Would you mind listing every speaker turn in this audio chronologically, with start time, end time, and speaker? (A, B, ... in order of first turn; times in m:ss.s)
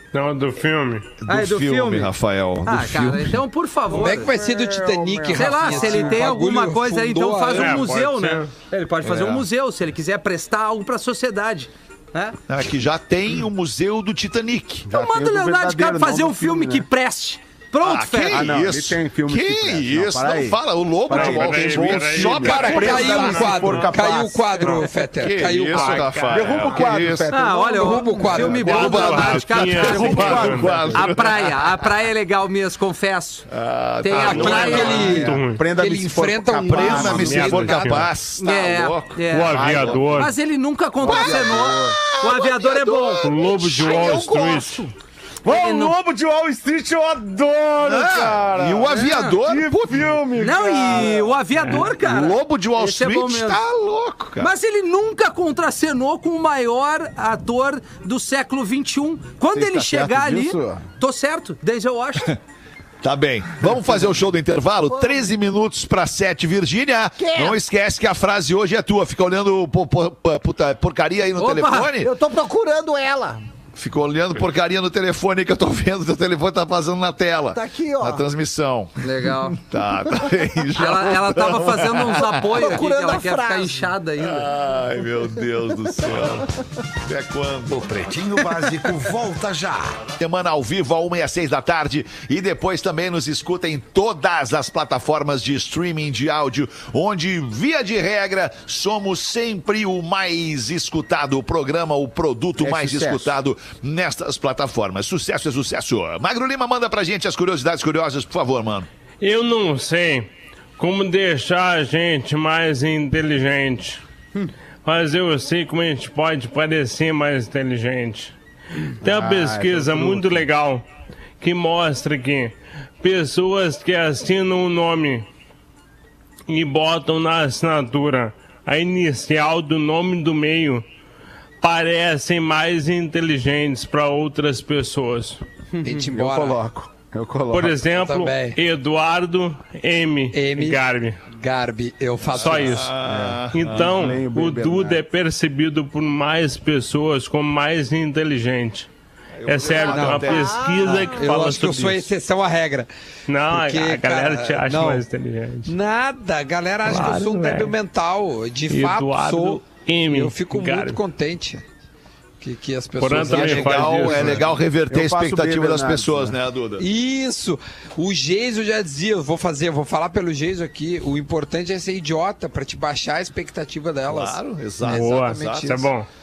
0:00.1-0:01.1 A
0:01.2-0:03.4 B
0:01.3-0:02.1 C
0:02.6-0:04.3 C
0:03.9-0:07.9 D
0:04.0-0:05.9 E
0:05.3-0:12.4 C
0:07.5-0:08.5 A
0:09.0-0:09.4 B
0:12.5-0:14.9 B
0:14.9-0:16.8 F
0:14.9-0:18.5 C
0:17.8-0:23.0 B
0:18.3-0:20.6 F
0:21.1-0:23.9 A
0:21.1-0:24.7 F
0:22.4-0:26.2 D
0:24.6-0:24.9 A
0:25.2-0:27.3 B
0:25.7-0:26.9 A
0:26.3-0:28.6 F
0:27.3-0:33.4 C
0:27.8-0:29.0 D
0:28.4-0:30.9 A
0:28.4-0:31.8 B
0:29.8-0:30.8 F
0:33.5-0:35.4 B
0:34.0-0:35.3 C
0:34.1-0:35.6 A
0:34.2-0:38.0 D
0:35.4-0:37.8 F
0:36.6-0:40.3 B
0:36.9-0:38.1 A
0:38.4-0:43.3 C
0:39.2-0:40.3 A
0:41.0-0:42.0 F
0:41.0-0:44.3 B
0:43.2-0:44.9 A
0:43.8-0:44.9 E
0:45.4-0:51.4 F
0:45.5-0:45.9 C
0:47.8-0:50.2 B
0:48.9-0:49.4 C
0:50.4-0:53.6 C
0:51.8-0:54.5 B
0:54.4-1:02.3 C
0:59.5-1:00.8 F
1:03.0-1:12.1 B
1:04.9-1:05.3 E
1:07.2-1:07.6 E
1:11.4-1:11.9 C
1:12.0-1:13.4 E
1:13.8-1:22.6 B
1:17.5-1:18.2 E
1:19.0-1:19.6 C
1:20.8-1:24.5 C
1:22.5-1:23.9 E
1:24.2-1:26.5 B
1:27.0-1:27.8 B
1:27.7-1:30.0 G
1:30.2-1:48.9 B
1:42.6-1:43.4 F
1:49.2-1:54.0 A
1:54.8-1:58.3 A
1:59.0-2:00.8 A
1:59.0-2:00.4 F
2:01.4-2:05.3 A
2:06.5-2:10.8 A
2:11.6-2:15.4 A
2:15.8-2:16.6 D
2:16.1-2:17.8 F
2:17.5-2:21.2 A
2:17.9-2:18.6 D
2:20.3-2:22.9 D
2:22.3-2:22.9 A
2:22.3-2:24.2 B
2:23.0-2:25.0 F
2:23.5-2:28.9 A
2:29.3-2:31.1 B
2:29.4-2:32.1 A
2:29.6-2:32.9 D
2:30.3-2:31.3 E
2:33.3-2:35.7 A
2:33.4-2:35.0 D
2:35.6-2:41.6 D
2:36.8-2:37.7 A
2:38.7-2:41.0 A
2:42.4-2:44.5 D
2:43.0-2:44.6 A
2:43.3-2:46.8 B
2:44.9-2:46.4 F
2:46.8-2:55.2 D
2:54.1-2:55.9 B
2:54.8-2:56.1 A